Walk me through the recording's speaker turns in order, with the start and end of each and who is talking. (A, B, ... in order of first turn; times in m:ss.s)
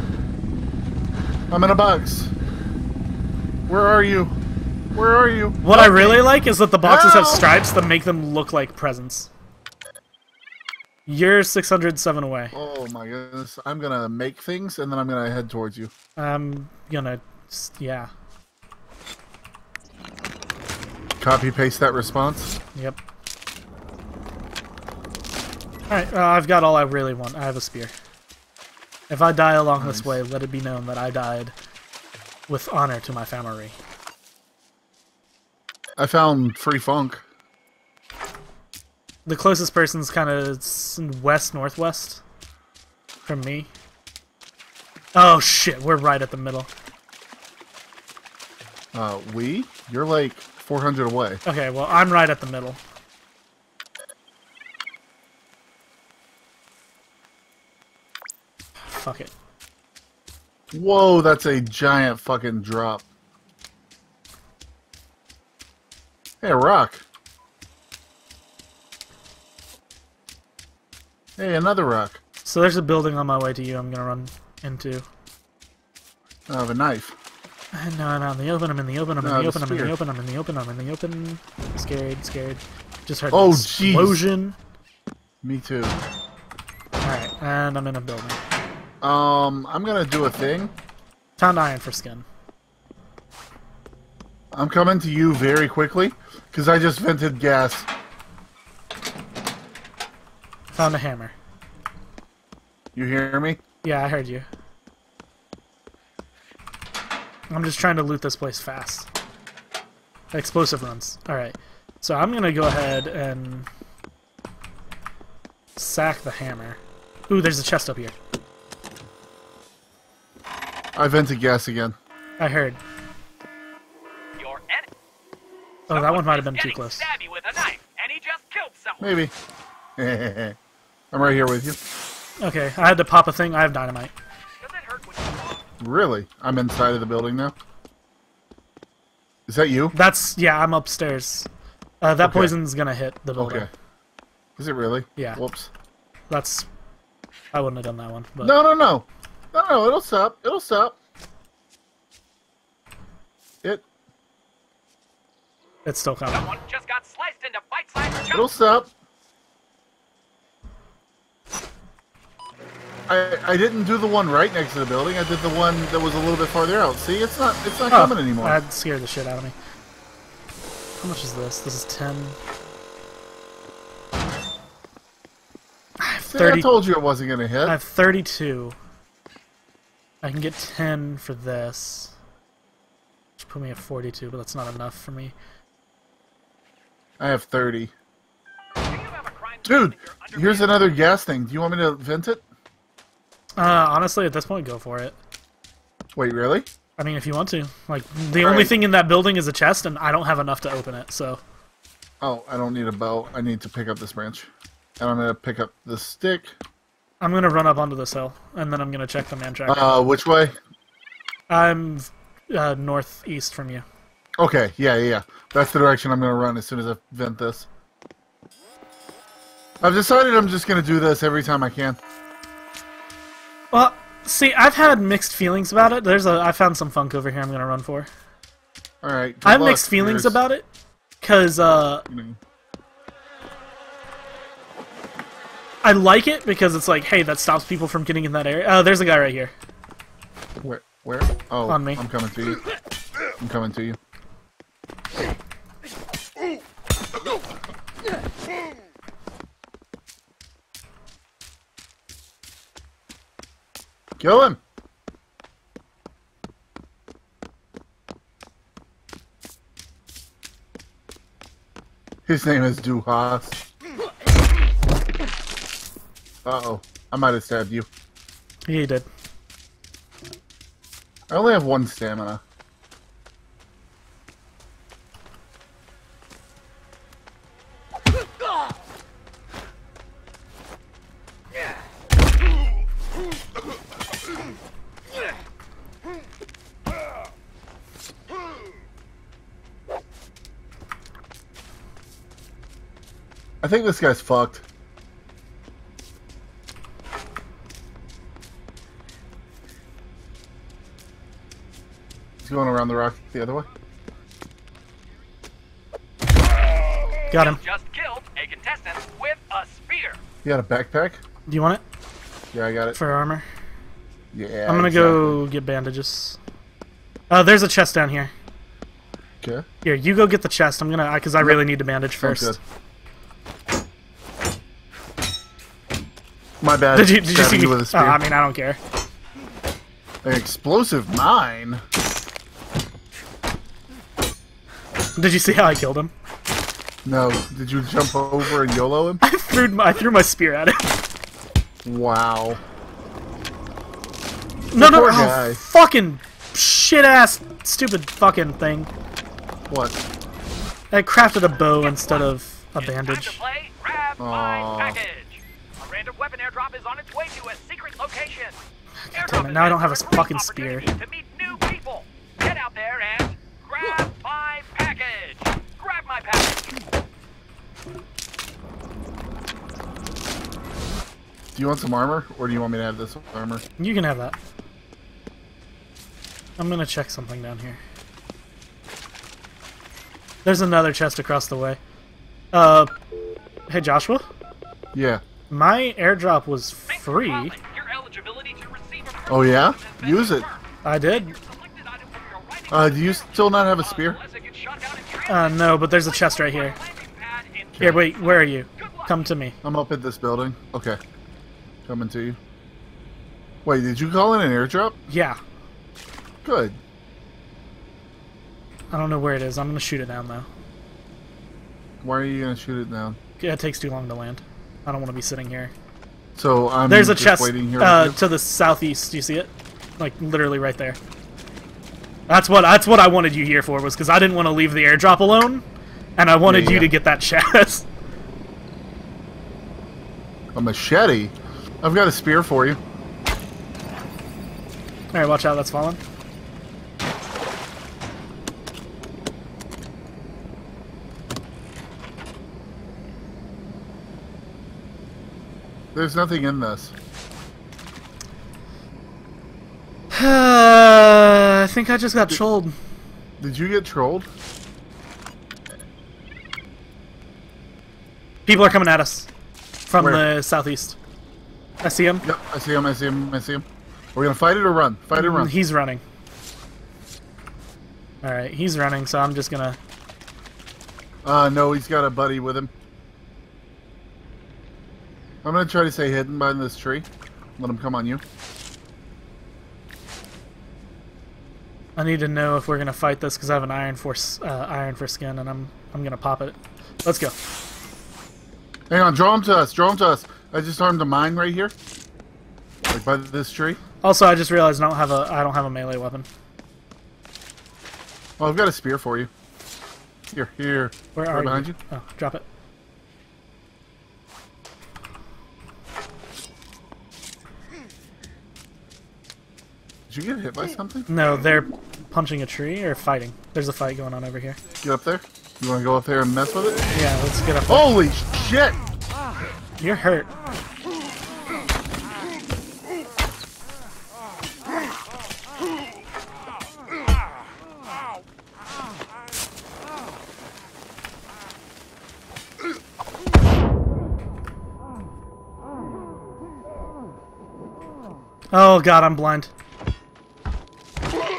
0:01.5-0:02.3 A
0:03.7-0:04.3 A
0:04.9-0:06.2 A
0:05.6-0:09.3 B
0:06.8-0:07.5 A
0:11.0-0:12.5 B
0:12.5-0:15.9 A
0:16.2-0:18.1 B
0:21.2-0:22.5 A
0:25.9-0:27.9 B
0:29.1-0:31.5 B
0:29.8-0:30.2 A
0:32.5-0:33.8 B
0:36.0-0:37.2 A
0:39.2-0:42.2 B
0:43.2-0:43.7 B
0:45.1-0:46.7 B
0:48.9-0:51.4 A
0:51.4-0:52.8 B
0:58.9-0:59.3 B
1:00.7-1:03.0 A
1:06.4-1:07.0 A
1:11.4-1:12.2 A
1:12.4-1:15.0 B
1:16.5-1:17.2 A
1:17.7-1:24.6 B
1:19.2-1:20.0 A
1:23.3-1:24.2 A
1:25.4-1:26.0 A
1:27.0-1:28.4 B
1:29.0-1:30.7 A
1:31.4-1:32.2 B
1:34.5-1:37.9 A
1:40.7-1:41.3 B
1:42.9-1:43.6 A
1:43.8-1:44.4 B
1:47.5-1:49.1 B
1:50.3-1:53.7 B
1:55.8-1:58.2 B
2:01.0-2:02.0 A
2:02.4-2:02.8 B
2:04.4-2:04.9 C
2:05.9-2:07.1 B
2:05.9-2:09.2 C
2:09.0-2:09.3 A
2:10.0-2:10.6 A
2:11.1-2:11.8 A
2:12.4-2:14.1 B
2:14.6-2:15.6 C
2:15.8-2:17.5 A
2:19.5-2:19.9 A
2:19.9-2:21.5 B
2:22.0-2:23.7 B
2:22.2-2:22.5 A
2:23.4-2:23.7 A
2:24.6-2:25.7 A
2:26.3-2:26.7 B
2:27.5-2:28.6 B
2:28.4-2:31.0 A
2:35.8-2:36.5 B
2:36.3-2:38.5 C
2:38.3-2:38.9 A
2:43.1-2:48.6 A
2:47.9-2:49.5 B
2:51.0-2:52.4 B
2:56.0-2:56.7 B
2:56.3-2:57.8 A
2:57.6-2:58.8 B
3:00.2-3:02.1 B
3:03.4-3:05.3 B
3:07.2-3:07.9 A
3:08.8-3:11.0 C
3:09.6-3:12.4 A
3:13.6-3:15.2 B
3:16.1-3:16.7 A
3:17.0-3:21.4 B
3:18.4-3:18.8 A
3:22.2-3:26.5 A
3:27.2-3:30.0 B
3:29.7-3:30.6 A
3:31.5-3:33.8 B
3:34.4-3:37.7 A
3:39.8-3:42.0 A
3:43.7-3:48.1 B
3:49.0-3:50.4 A
3:49.4-3:50.6 B
3:51.2-3:52.0 B
3:52.1-3:52.4 A
3:55.8-3:59.5 B
4:00.6-4:02.6 A
4:01.7-4:02.0 B
4:03.4-4:04.0 A
4:14.2-4:14.6 A
4:22.2-4:23.6 A
4:26.4-4:27.9 A
4:28.7-4:29.1 B
4:31.3-4:32.4 A
4:53.6-4:54.6 A
5:02.4-5:03.7 A
5:07.3-5:10.2 C
5:07.3-5:07.6 B
5:10.4-5:11.2 A
5:11.5-5:11.8 B
5:12.5-5:13.0 A
5:12.9-5:13.4 B
5:14.3-5:15.4 A
5:14.7-5:16.4 B
5:17.3-5:18.3 B
5:19.8-5:22.6 B
5:22.2-5:22.6 A
5:26.6-5:28.2 A
5:26.9-5:28.8 B
5:30.2-5:31.8 A
5:35.2-5:36.1 B
5:37.0-5:39.2 A
5:39.2-5:40.9 B
5:41.8-5:42.6 A
5:44.7-5:48.9 B
5:44.7-5:45.6 A
5:49.7-5:50.0 A
5:50.9-5:53.4 B
5:51.6-5:58.6 C
5:54.2-5:55.0 A
5:59.0-6:00.9 B
5:59.1-6:06.8 C
6:11.5-6:13.6 A
6:13.8-6:14.4 B
6:16.6-6:17.8 B
6:20.4-6:21.8 B
6:22.5-6:22.9 B
6:23.7-6:24.2 B
6:24.9-6:25.2 A
6:25.5-6:27.6 B
6:26.9-6:39.1 C
6:29.3-6:30.5 A
6:30.8-6:31.4 B
6:32.7-6:34.2 A
6:35.3-6:36.8 B
6:37.8-6:38.0 A
6:37.8-6:39.6 B
6:39.6-6:41.0 A
6:41.8-6:42.4 A
6:43.6-6:45.0 A
6:45.1-6:45.4 B
6:46.4-6:46.8 A
6:48.9-6:50.5 B
6:52.0-6:53.2 A
6:53.4-6:55.7 B
6:56.3-6:58.2 A
6:56.9-7:01.0 B
7:02.3-7:05.6 B
7:06.2-7:07.8 B
7:06.4-7:06.9 A
7:10.5-7:12.8 A
7:15.1-7:16.0 B
7:25.9-7:26.9 A
7:30.1-7:32.7 B
7:33.4-7:34.3 A
7:38.4-7:39.3 B
7:39.8-7:41.0 B
7:40.0-7:40.2 A
7:41.8-7:42.2 B
7:42.2-7:45.5 A
7:45.1-7:46.0 B
7:48.2-7:49.8 B
7:51.2-7:52.7 A
7:55.4-7:58.2 A
8:02.0-8:07.3 B
8:08.9-8:11.7 A
8:12.9-8:13.8 A
8:14.0-8:16.3 B
8:18.4-8:19.3 A
8:20.3-8:21.8 A
8:21.1-8:22.4 B
8:30.1-8:31.1 A
8:31.1-8:34.6 B
8:34.8-8:36.8 A
8:36.9-8:37.9 B
8:37.7-8:38.8 A
8:39.8-8:40.3 B
8:58.5-8:59.5 B